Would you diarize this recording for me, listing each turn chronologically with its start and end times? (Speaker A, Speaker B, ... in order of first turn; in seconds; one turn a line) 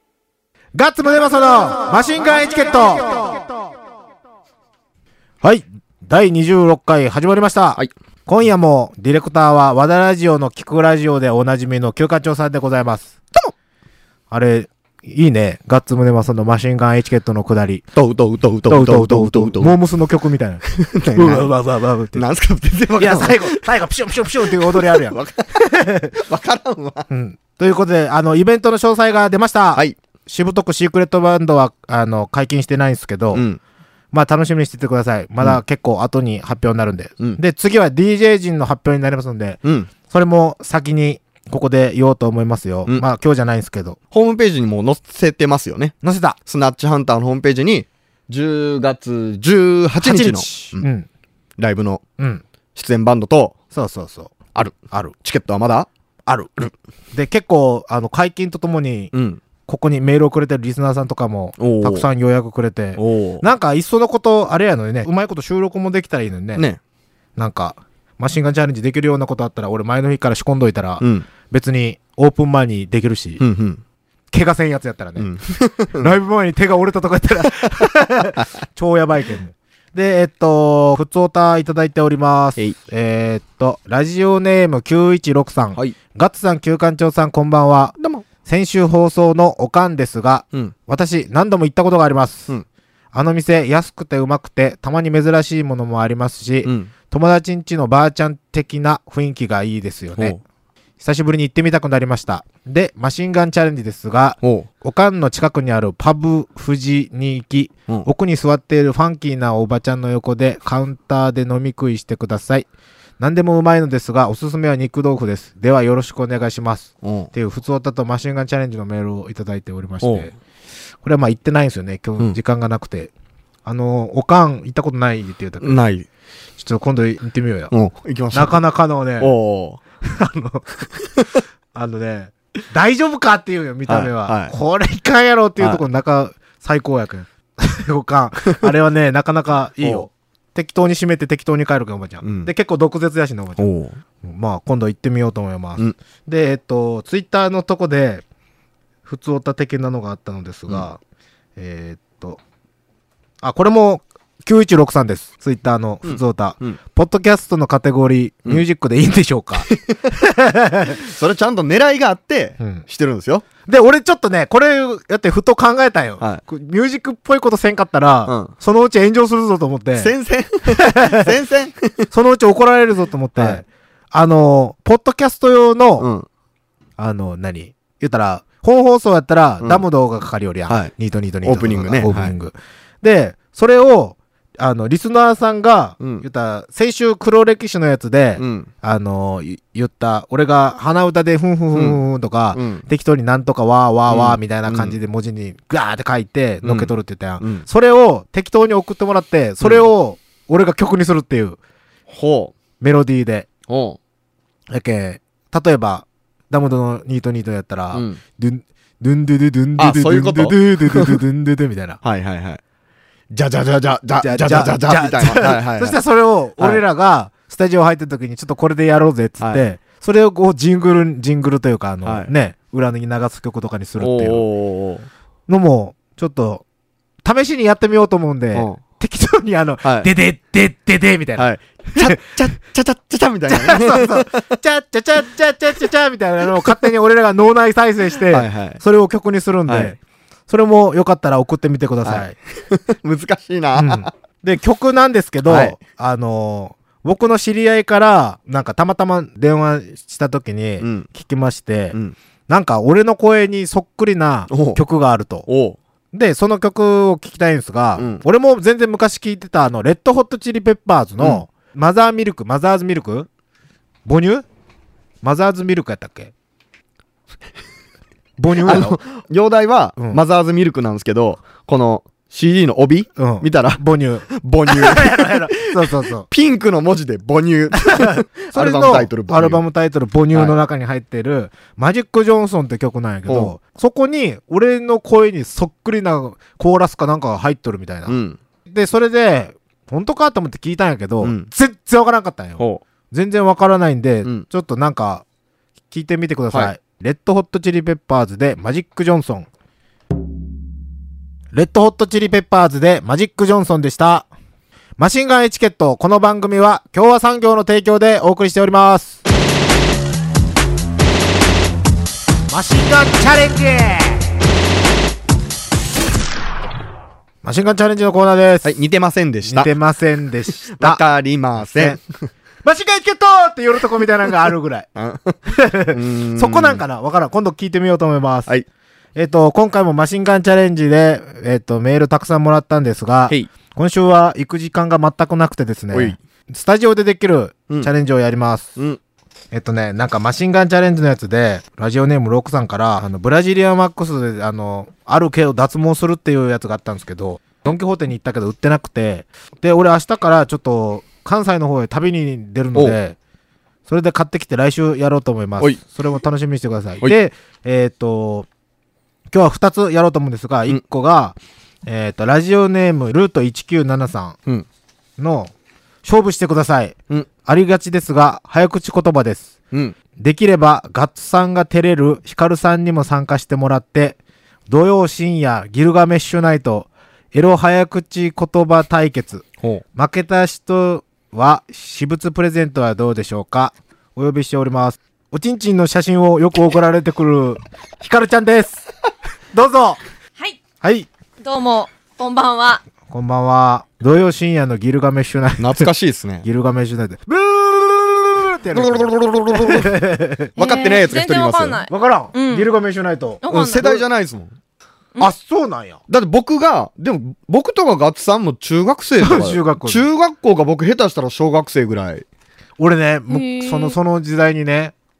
Speaker A: 0.7-3.6
Speaker A: 5.4-13.1
Speaker A: 14.3-17.9
Speaker B: 17.9-19.7
Speaker A: 18.7-20.6
Speaker B: 20.7-21.5
Speaker A: 21.1-22.2
Speaker B: 22.1-23.6
Speaker A: 23.0-26.2
Speaker B: 24.4-25.6
Speaker B: 26.2-27.1
Speaker A: 27.1-33.4
Speaker B: 33.3-33.6
Speaker A: 34.1-44.0
Speaker B: 39.6-39.9
Speaker B: 44.1-50.9
Speaker A: 46.0-46.4
Speaker A: 50.0-51.1
Speaker B: 51.6-52.0
Speaker B: 52.7-53.5
Speaker A: 53.7-55.1
Speaker B: 54.5-55.9
Speaker A: 56.3-59.1
Speaker B: 59.1-59.4
Speaker A: 59.6-66.6
Speaker B: 61.6-62.0
Speaker B: 63.0-63.4
Speaker A: 67.4-73.4
Speaker B: 71.0-71.2
Speaker B: 73.4-73.8
Speaker A: 74.3-75.3
Speaker B: 75.2-76.1
Speaker A: 76.0-92.5
Speaker B: 88.0-88.2
Speaker A: 93.1-100.4
Speaker B: 96.6-96.9
Speaker A: 101.0-112.7
Speaker B: 104.4-104.7
Speaker A: 113.2-120.3
Speaker B: 117.0-117.3
Speaker B: 120.0-120.3
Speaker A: 121.0-123.1
Speaker A: 123.6-125.8
Speaker B: 125.6-126.0
Speaker A: 126.6-127.7
Speaker B: 127.7-128.6
Speaker A: 128.3-129.3
Speaker B: 129.2-129.8
Speaker A: 130.0-130.7
Speaker A: 131.7-143.7
Speaker B: 133.9-134.5
Speaker B: 139.8-140.1
Speaker B: 142.2-142.5
Speaker B: 143.6-144.0
Speaker A: 144.2-148.2
Speaker A: 149.0-151.0
Speaker A: 151.6-152.4
Speaker A: 153.4-161.0
Speaker B: 156.0-156.8
Speaker B: 159.7-160.1
Speaker B: 160.9-163.4
Speaker A: 162.6-162.8
Speaker A: 163.7-170.1
Speaker B: 168.2-168.5
Speaker B: 170.0-172.1
Speaker A: 170.7-171.3
Speaker A: 172.1-176.1
Speaker B: 173.4-173.6
Speaker B: 176.0-176.2
Speaker A: 177.0-201.6
Speaker B: 181.4-182.3
Speaker B: 188.4-188.7
Speaker B: 191.7-192.0
Speaker B: 192.5-192.8
Speaker B: 194.1-195.0
Speaker B: 196.6-197.7
Speaker B: 202.1-202.5
Speaker A: 202.8-203.5
Speaker B: 203.7-204.0
Speaker A: 204.7-212.0
Speaker B: 207.9-208.2
Speaker B: 209.8-211.2
Speaker B: 212.0-212.6
Speaker B: 213.3-216.0
Speaker A: 214.2-224.4
Speaker B: 222.0-222.3
Speaker B: 224.0-225.1
Speaker A: 225.5-226.6
Speaker A: 227.2-232.2
Speaker B: 228.5-228.8
Speaker B: 229.8-230.1
Speaker B: 231.4-234.6
Speaker A: 233.5-240.0
Speaker B: 238.3-238.8
Speaker B: 239.7-239.9
Speaker A: 240.5-242.3
Speaker B: 242.0-244.1
Speaker A: 243.7-252.0
Speaker B: 245.4-245.8
Speaker B: 250.8-251.1
Speaker A: 252.5-255.5
Speaker B: 254.5-254.8
Speaker B: 255.5-255.8
Speaker A: 256.1-263.3
Speaker B: 257.9-258.2
Speaker B: 261.2-261.4
Speaker A: 264.0-264.4
Speaker A: 265.2-266.3
Speaker A: 268.4-269.0
Speaker B: 268.6-279.6
Speaker A: 273.2-276.3
Speaker A: 277.8-288.2
Speaker B: 283.3-283.5
Speaker B: 288.1-288.4
Speaker A: 288.7-295.2
Speaker B: 291.2-291.5
Speaker A: 295.9-299.5
Speaker A: 301.5-304.3
Speaker A: 305.0-309.2
Speaker A: 312.5-314.4
Speaker A: 317.4-318.8
Speaker B: 318.6-319.7
Speaker A: 319.4-321.0
Speaker B: 320.6-322.0
Speaker A: 321.6-322.0
Speaker A: 322.6-324.9
Speaker B: 324.9-325.4
Speaker A: 325.5-328.5
Speaker B: 325.9-326.8
Speaker A: 329.1-338.8
Speaker B: 335.9-336.2
Speaker A: 339.5-353.1
Speaker A: 353.9-358.5
Speaker A: 359.3-364.4
Speaker A: 365.2-365.5
Speaker A: 366.0-369.5
Speaker A: 370.2-374.2
Speaker A: 374.7-388.9
Speaker A: 389.5-390.0
Speaker A: 390.8-391.1
Speaker C: 391.4-392.8
Speaker A: 393.1-395.9
Speaker B: 395.6-396.4
Speaker A: 396.4-400.5
Speaker B: 398.7-399.9
Speaker B: 400.6-401.8
Speaker C: 400.6-402.7
Speaker A: 401.9-404.0
Speaker C: 403.4-404.0
Speaker B: 403.5-404.5
Speaker A: 405.2-406.0
Speaker B: 406.1-412.2
Speaker A: 409.2-410.1
Speaker A: 412.8-414.9
Speaker C: 413.3-414.0